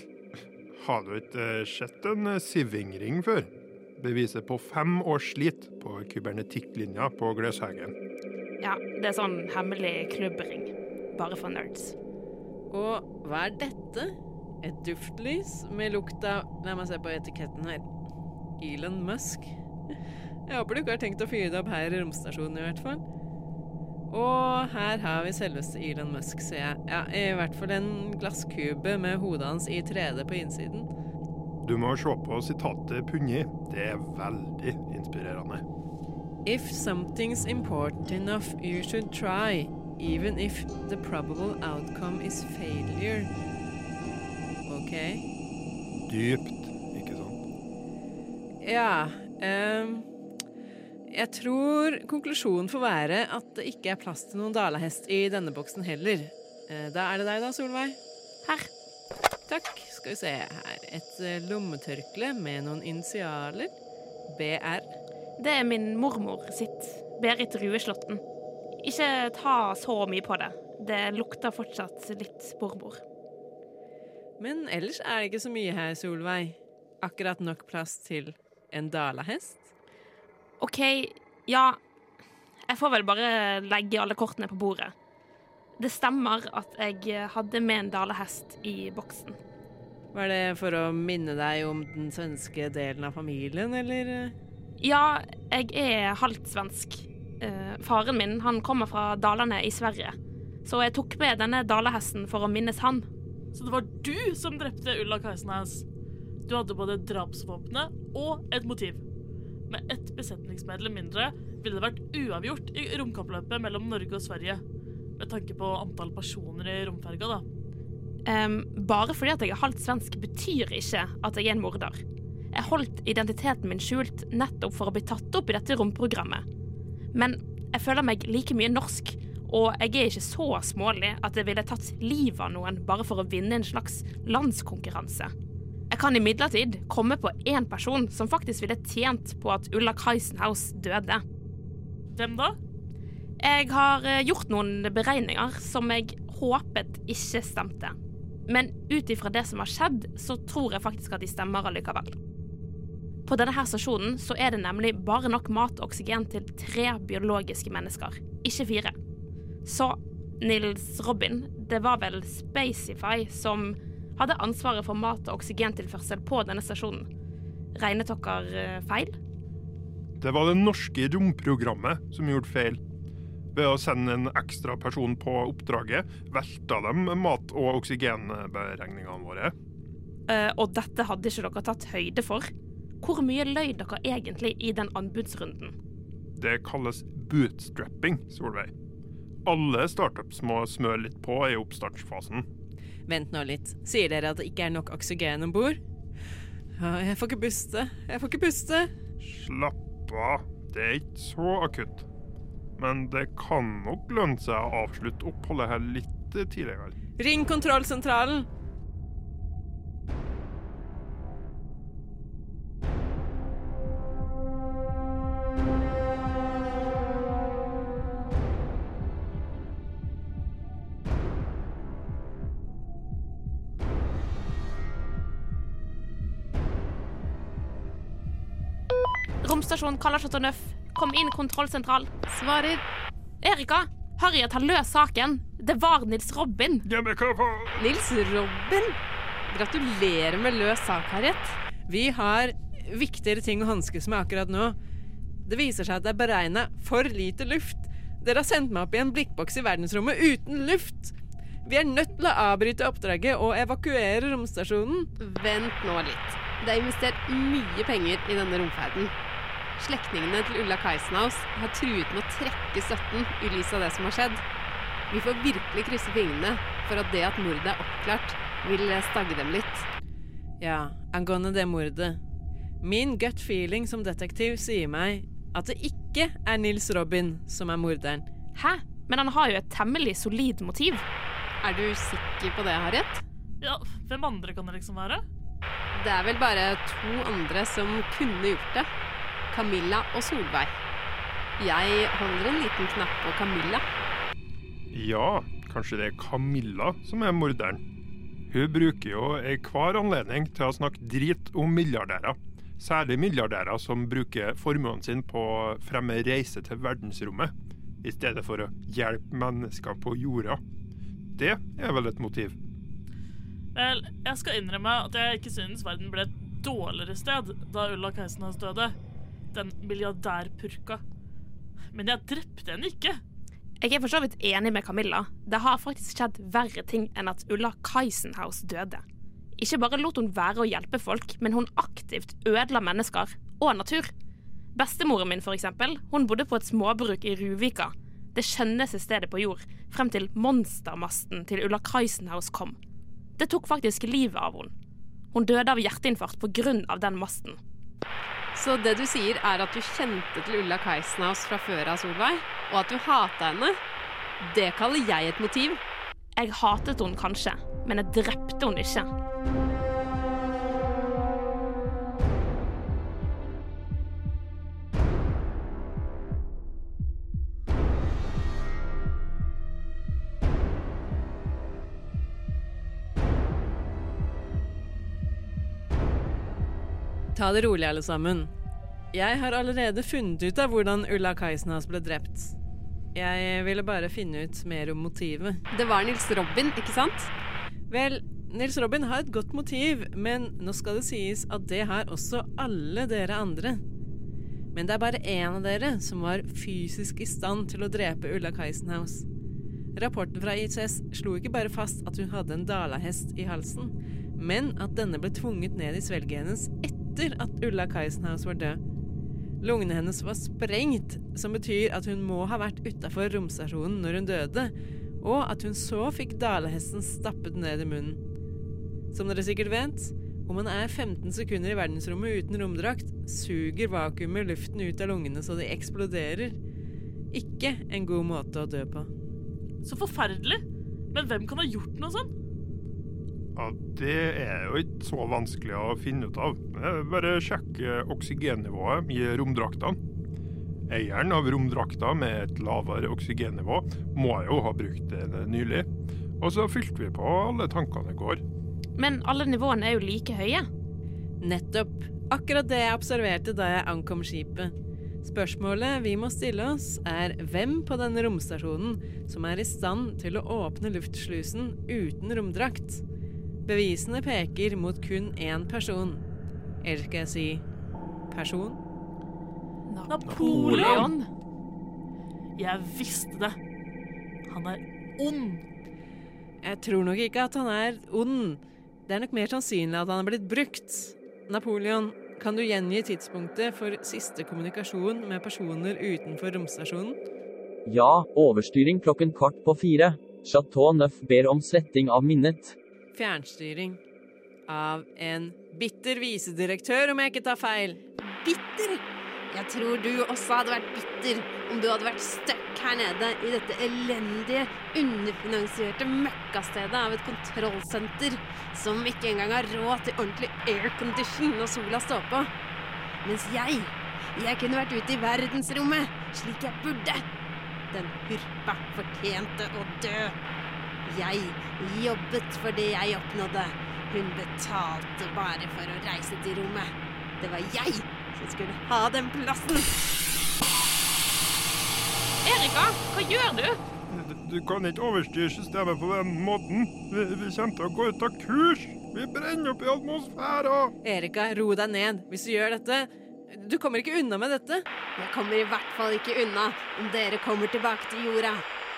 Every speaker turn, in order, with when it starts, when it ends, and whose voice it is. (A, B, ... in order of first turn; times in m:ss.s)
0:00.8-0:07.9 A
0:08.6-0:12.0 B
0:12.7-0:17.8 C
0:18.6-0:19.5 C
0:20.5-0:23.0 C
0:24.1-0:30.9 C
0:31.6-0:35.6 A
0:36.4-0:43.3 C
0:44.6-0:45.3 C
0:46.1-0:47.4 A
0:48.6-0:50.1 C
0:51.1-0:58.0 C
0:58.4-0:58.7 B
0:59.5-1:03.7 C
1:04.3-1:04.9 C
1:05.4-1:08.2 B
1:08.8-1:13.0 B
1:14.4-1:19.7 C
1:20.6-1:21.8 B
1:22.7-1:24.9 B
1:25.8-1:29.4 B
1:30.1-1:34.3 C
1:34.8-1:43.1 B
1:43.5-1:45.8 D
1:46.5-1:49.0 D
1:49.7-1:54.6 D
1:55.2-1:57.4 D
1:58.3-2:02.0 B
2:02.5-2:06.4 B
2:07.1-2:15.3 B
2:15.9-2:21.2 B
2:22.1-2:22.6 D
2:23.4-2:28.0 B
2:28.5-2:32.2 B
2:33.3-2:39.0 B
2:39.6-2:47.1 B
2:47.8-2:49.2 B
2:50.2-2:52.8 A
2:53.5-2:59.5 A
3:00.3-3:05.8 B
3:06.4-3:08.7 A
3:09.4-3:12.5 A
3:13.1-3:15.8 C
3:16.8-3:18.9 C
3:19.2-3:22.1 A
3:22.8-3:26.9 A
3:27.2-3:28.5 C
3:49.4-3:52.1 B
3:52.3-3:52.8 E
3:53.4-3:56.9 B
3:56.8-3:57.8 A
3:57.8-3:59.0 E
3:59.5-4:01.6 E
4:01.9-4:04.8 C
4:05.5-4:15.1 C
4:15.2-4:19.1 E
4:19.8-4:24.4 E
4:25.1-4:29.9 E
4:30.6-4:32.2 C
4:32.8-4:38.3 C
4:38.6-4:41.1 B
4:41.6-4:43.2 E
4:43.6-4:45.2 D
4:46.0-4:48.9 E
4:49.5-4:50.8 E
4:51.6-4:53.8 E
4:54.9-4:57.8 A
4:58.5-5:10.6 A
5:11.4-5:12.6 A
5:13.8-5:19.0 D
5:19.5-5:21.0 D
5:21.9-5:23.2 D
5:23.8-5:29.0 B
5:29.6-5:34.1 B
5:34.8-5:42.8 B
5:43.4-5:44.7 B
5:45.3-5:47.6 B
5:48.6-5:53.8 E
5:54.4-5:55.8 E
5:56.4-5:59.1 B
6:17.4-6:18.5 C
6:19.1-6:22.6 C
6:23.2-6:25.6 C
6:25.7-6:27.3 E
6:27.9-6:33.8 C
6:34.7-6:39.3 C
6:40.0-6:48.8 C
6:49.6-6:58.2 C
6:59.1-7:06.6 C
7:07.3-7:09.1 C
7:09.8-7:12.3 D
7:13.6-7:20.0 A
7:20.9-7:25.9 A
7:26.4-7:28.4 A
7:29.0-7:30.7 B
7:31.4-7:43.0 C
7:43.7-7:46.2 C
7:46.8-7:47.6 C
7:48.3-7:48.8 C
7:49.9-7:51.3 B
7:50.1-7:51.1 D
7:50.2-7:51.1 A
7:52.6-7:53.6 D
7:54.5-7:55.6 D
7:56.6-8:07.2 C
8:07.9-8:12.8 F
8:13.2-8:14.0 C
8:14.7-8:18.0 C
8:18.2-8:32.5 E
8:33.2-8:37.3 E
8:37.9-8:40.4 E
8:41.1-8:49.9 E
8:52.4-8:53.8 B
8:54.1-9:01.0 A
9:01.0-9:04.9 C
9:05.2-9:08.6 E